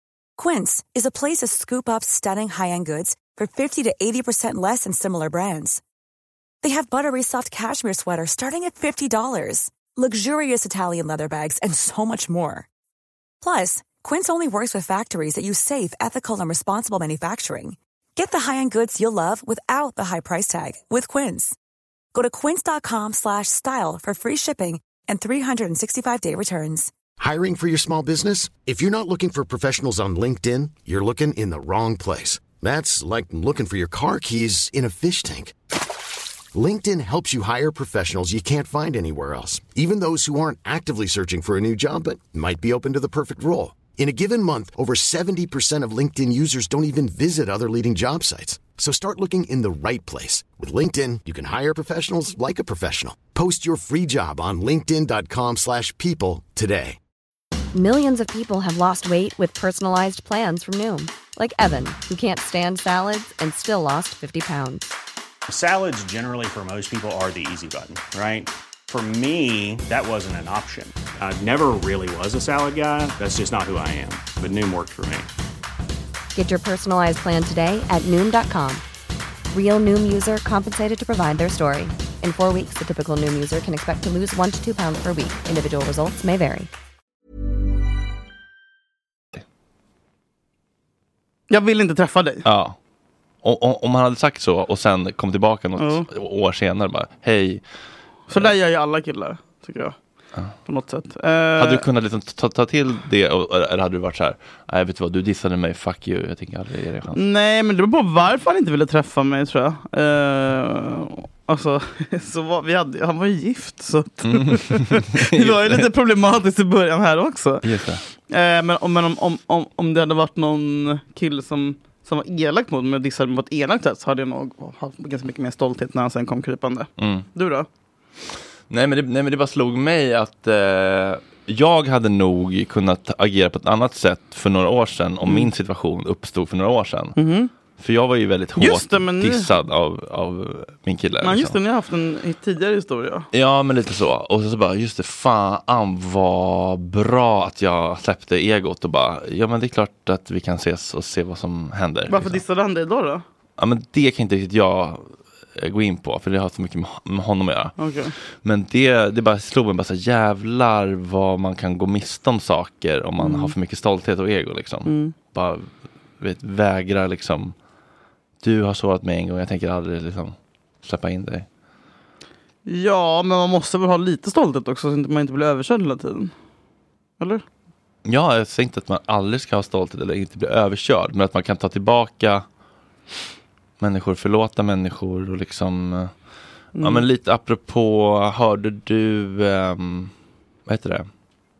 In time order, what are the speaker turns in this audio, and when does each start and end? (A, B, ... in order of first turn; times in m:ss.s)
0:00.4-0:05.8 A
0:06.6-0:12.7 A
0:13.4-0:21.6 A
0:22.1-0:26.9 A
0:27.2-0:35.5 B
0:36.5-0:57.0 B
0:57.7-1:04.8 C
1:05.5-1:15.3 D
1:16.3-1:18.8 C
1:19.5-1:26.7 C
1:31.5-1:32.4 E
1:32.4-1:32.8 F
1:33.4-1:37.6 F
1:35.8-1:36.0 E
1:38.3-1:40.0 E
1:40.6-1:41.8 E
1:41.6-1:47.2 F
1:47.1-1:57.6 E
1:54.3-1:55.9 F
1:57.6-1:58.0 F
1:58.3-2:07.7 E
2:07.0-2:07.3 F
2:08.7-2:17.2 F
2:15.2-2:15.5 E
2:17.2-2:17.5 E
2:17.8-2:21.6 F
2:18.6-2:19.5 E
2:21.2-2:23.3 E
2:23.3-2:32.4 F
2:32.1-2:33.2 E
2:33.6-2:37.8 F
2:37.8-2:38.1 E
2:38.4-2:45.7 F
2:43.2-2:43.5 E
2:44.8-2:45.1 E
2:46.2-2:47.5 F
2:48.4-2:51.5 F
2:52.6-2:56.3 E
2:58.0-3:02.4 F
3:03.8-3:06.1 F
3:06.8-3:07.0 E
3:06.8-3:10.1 F
3:10.6-3:11.1 F